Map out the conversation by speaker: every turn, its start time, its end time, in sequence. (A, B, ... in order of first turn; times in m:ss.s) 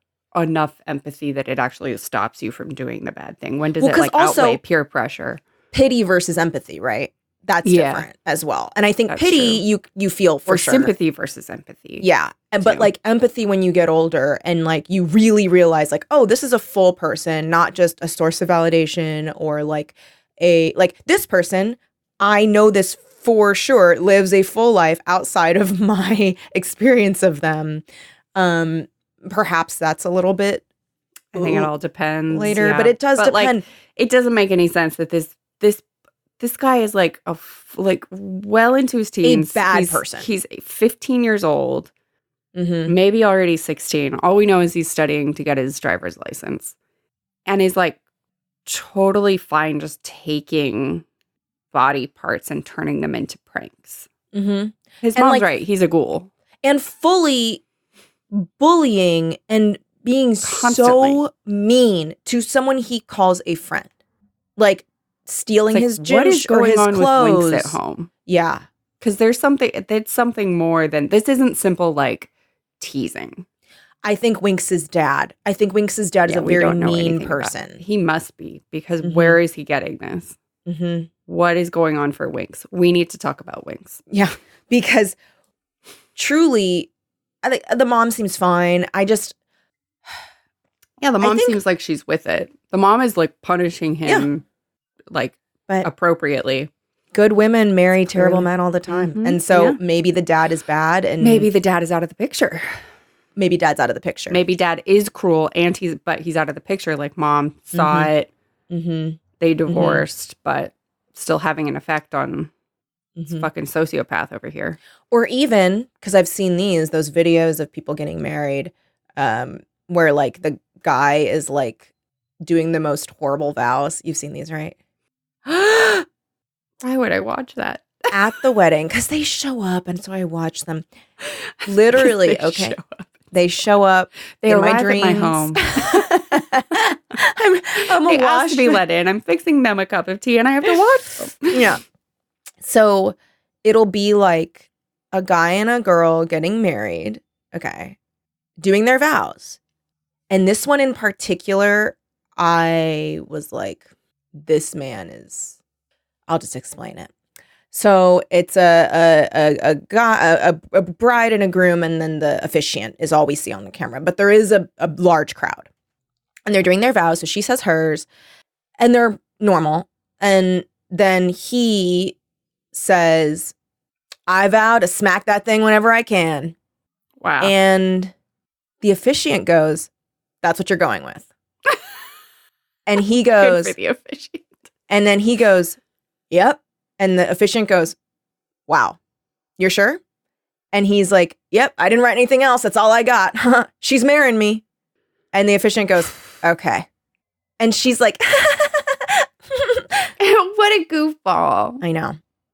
0:00.3-0:05.4 A
0:03.8-0:04.6 B
0:05.7-0:10.9 B
0:07.6-0:08.1 A
0:09.1-0:09.6 A
0:10.5-0:12.1 A
0:12.0-0:27.8 B
0:12.6-0:12.9 A
0:28.4-0:30.6 B
0:31.3-0:31.7 B
0:31.3-0:35.8 A
0:32.3-0:33.6 B
0:36.4-0:41.9 A
0:39.2-0:40.3 B
0:42.6-0:42.9 B
0:42.9-0:46.7 A
0:47.5-0:48.0 A
0:48.7-0:51.0 A
0:51.7-0:54.1 A
0:54.3-0:55.5 B
0:55.0-0:56.3 A
0:56.6-0:57.6 B
0:58.3-1:03.9 B
1:00.4-1:01.2 A
1:04.6-1:08.6 B
1:05.7-1:08.1 A
1:09.0-1:12.3 A
1:12.8-1:13.4 A
1:14.0-1:17.8 B
1:16.3-1:20.4 A
1:19.0-1:19.4 B
1:20.7-1:21.1 B
1:21.3-1:24.0 A
1:24.1-1:25.2 B
1:26.2-1:26.9 B
1:27.4-1:29.4 B
1:31.0-1:34.4 A
1:31.2-1:31.6 B
1:35.1-1:36.7 A
1:37.1-1:41.5 B
1:38.2-1:39.8 A
1:41.2-1:42.7 A
1:43.4-1:44.4 B
1:44.3-1:48.3 A
1:47.7-1:48.1 B
1:48.7-1:50.0 B
1:49.4-1:52.5 A
1:53.2-1:53.5 B
1:53.3-1:54.8 A
1:55.1-2:01.8 B
2:02.4-2:04.8 B
2:05.5-2:06.1 B
2:06.8-2:08.1 A
2:08.1-2:10.9 B
2:11.6-2:13.1 A
2:11.6-2:12.8 B
2:13.3-2:18.8 B
2:14.4-2:16.2 A
2:17.8-2:21.6 A
2:21.5-2:21.8 B
2:22.6-2:28.0 B
2:28.6-2:29.6 B
2:30.3-2:35.6 B
2:36.3-2:37.1 B
2:37.7-2:45.7 B
2:46.5-2:48.1 B
2:48.8-2:52.2 B
2:52.7-2:53.5 B
2:54.3-2:56.6 B
2:57.2-2:57.5 A
2:57.4-2:58.1 B
2:58.8-2:59.9 B
3:00.4-3:01.3 B
3:02.9-3:03.8 B
3:03.3-3:04.5 A
3:04.9-3:05.8 B
3:06.3-3:08.0 B
3:08.7-3:09.0 B
3:09.6-3:10.0 B
3:10.7-3:14.6 B
3:15.3-3:16.9 B
3:17.6-3:20.1 B
3:20.2-3:21.8 A
3:21.8-3:22.2 B